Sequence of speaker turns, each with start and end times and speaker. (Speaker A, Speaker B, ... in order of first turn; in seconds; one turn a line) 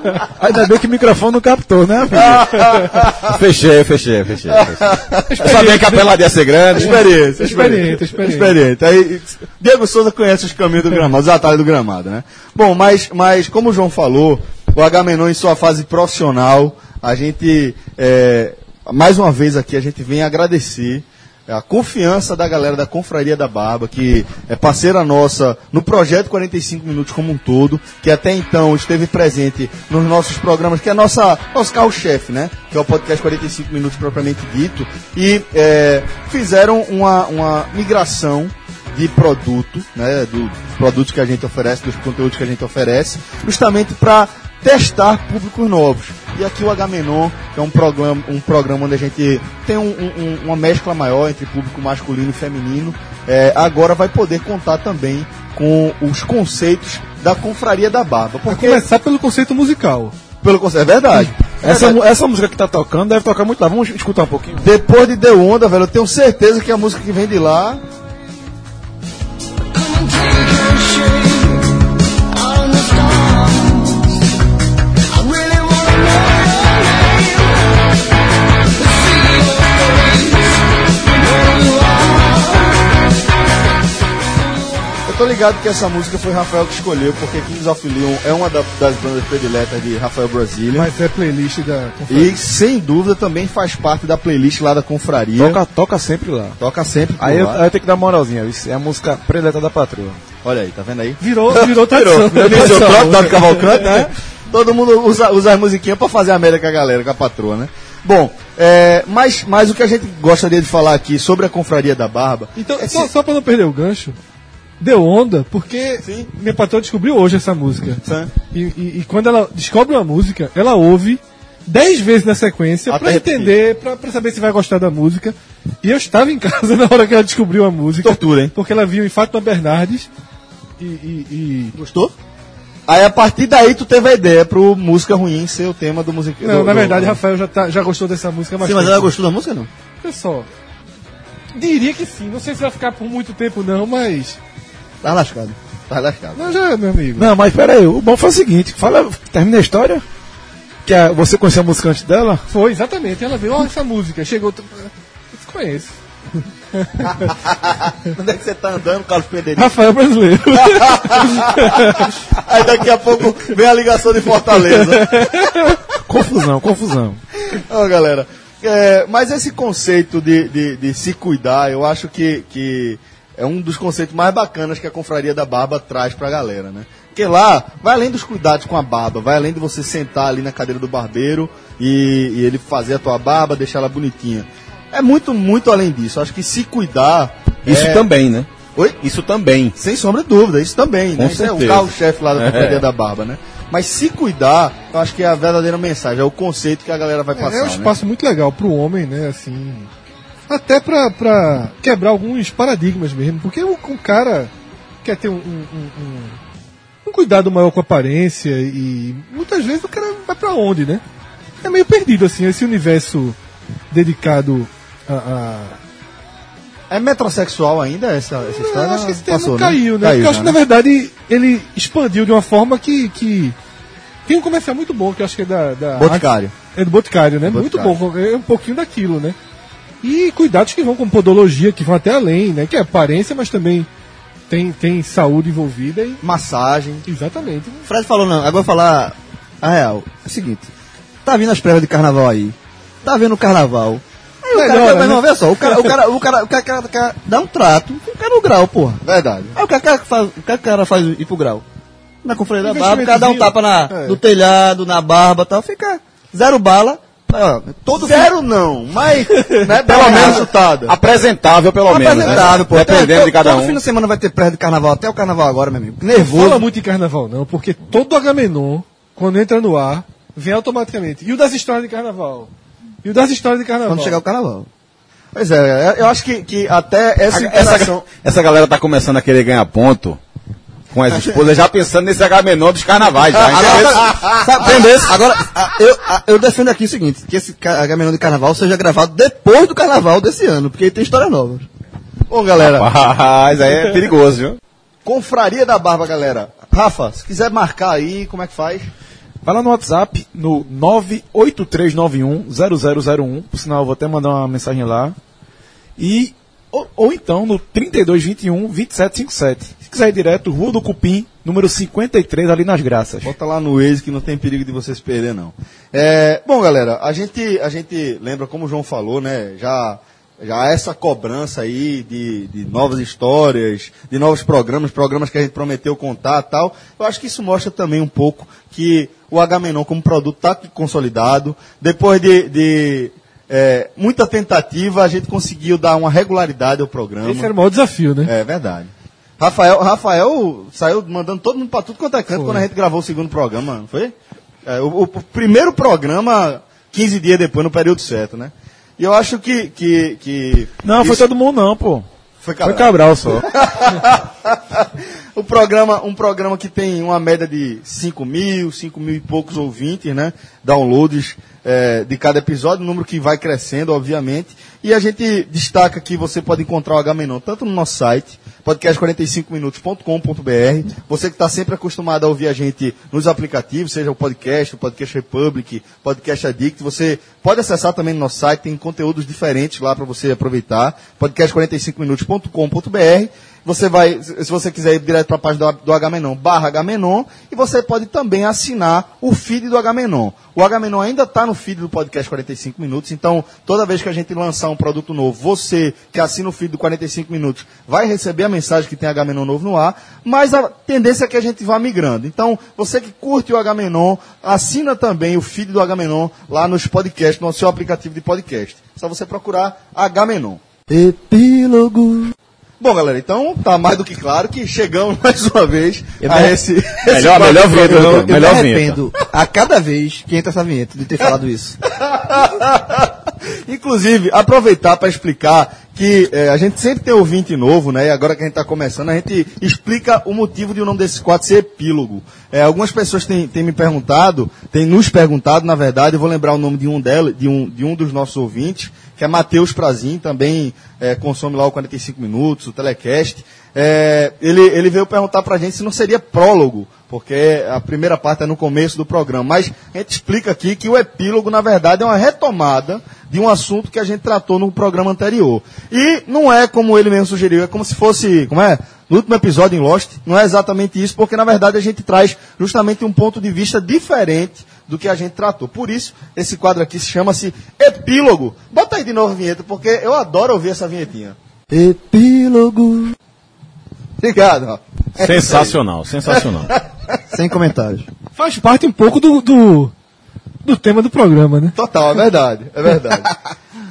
Speaker A: 0.3-2.6
Speaker B: 2.1-3.3
Speaker C: 3.1-7.1
Speaker B: 4.5-5.4
Speaker D: 5.3-6.1
Speaker B: 6.8-58.8
Speaker D: 6.8-8.6
Speaker D: 58.5-60.1
Speaker B: 60.4-62.0
Speaker A: 61.6-64.6
Speaker B: 64.6-67.8
Speaker B: 85.0-90.9
Speaker D: 90.7-92.4
Speaker B: 92.1-95.6
Speaker A: 95.4-96.6
Speaker B: 96.6-97.6
Speaker A: 97.2-100.2
Speaker B: 100.4-113.1
Speaker D: 101.2-103.9
Speaker A: 102.8-103.2
Speaker D: 112.5-114.2
Speaker D: 114.8-130.1
Speaker B: 116.0-116.3
Speaker B: 118.0-118.3
Speaker B: 122.9-123.5
Speaker B: 128.0-128.5
Speaker D: 130.8-131.8
Speaker E: 131.7-132.1
Speaker B: 132.9-137.2
Speaker D: 136.4-139.1
Speaker E: 138.6-139.7
Speaker D: 140.0-140.5
Speaker D: 141.5-144.4
Speaker E: 145.0-145.6
Speaker B: 145.9-146.5
Speaker D: 146.3-147.3
Speaker A: 147.2-150.0
Speaker A: 150.8-152.4
Speaker D: 152.5-156.0
Speaker D: 156.7-157.3
Speaker B: 157.2-159.8
Speaker D: 159.5-162.1
Speaker B: 160.6-165.5
Speaker D: 164.5-165.7
Speaker A: 166.1-167.2
Speaker B: 167.5-188.1
Speaker C: 187.7-188.5
Speaker C: 189.0-189.7
Speaker B: 189.7-197.9
Speaker C: 191.2-192.8
Speaker D: 197.3-199.9
Speaker D: 200.5-204.5
Speaker D: 205.0-206.4
Speaker D: 207.0-211.0
Speaker D: 211.6-213.3
Speaker D: 213.9-215.8
Speaker B: 216.9-220.6
Speaker D: 218.6-223.6
Speaker D: 224.2-229.3
Speaker B: 225.9-226.5
Speaker B: 227.4-228.0
Speaker D: 230.0-233.9
Speaker D: 234.5-236.2
Speaker B: 236.2-237.1
Speaker D: 237.1-237.8
Speaker E: 237.8-240.7
Speaker E: 241.2-249.0
Speaker D: 244.5-245.9
Speaker B: 249.0-249.6
Speaker E: 249.5-251.6
Speaker E: 252.2-258.3
Speaker D: 252.6-254.1
Speaker B: 257.9-260.9
Speaker C: 259.8-263.8
Speaker E: 259.9-260.4
Speaker E: 261.9-266.6
Speaker B: 262.2-262.5
Speaker D: 266.1-272.5
Speaker D: 273.0-274.2
Speaker E: 273.9-274.7
Speaker B: 275.3-278.0
Speaker C: 277.3-280.2
Speaker C: 280.9-284.4
Speaker E: 283.4-291.6
Speaker B: 292.3-292.9
Speaker C: 292.6-294.6
Speaker B: 295.0-298.9
Speaker A: 299.4-305.1
Speaker A: 306.0-313.3
Speaker B: 313.2-337.5
Speaker D: 337.2-338.3
Speaker B: 338.2-344.1
Speaker D: 342.4-342.6
Speaker B: 344.6-351.3
Speaker A: 350.8-352.1
Speaker B: 352.4-410.6
Speaker A: 352.6-353.5
Speaker E: 410.9-412.3
Speaker B: 412.8-418.3
Speaker E: 416.2-416.6
Speaker C: 417.1-419.0
Speaker E: 417.4-421.8
Speaker B: 422.0-471.4
Speaker E: 471.7-473.1
Speaker B: 474.2-475.8
Speaker C: 475.2-476.7
Speaker B: 476.3-476.8
Speaker E: 477.3-478.1
Speaker D: 478.4-479.9
Speaker D: 480.6-481.7
Speaker B: 481.7-483.3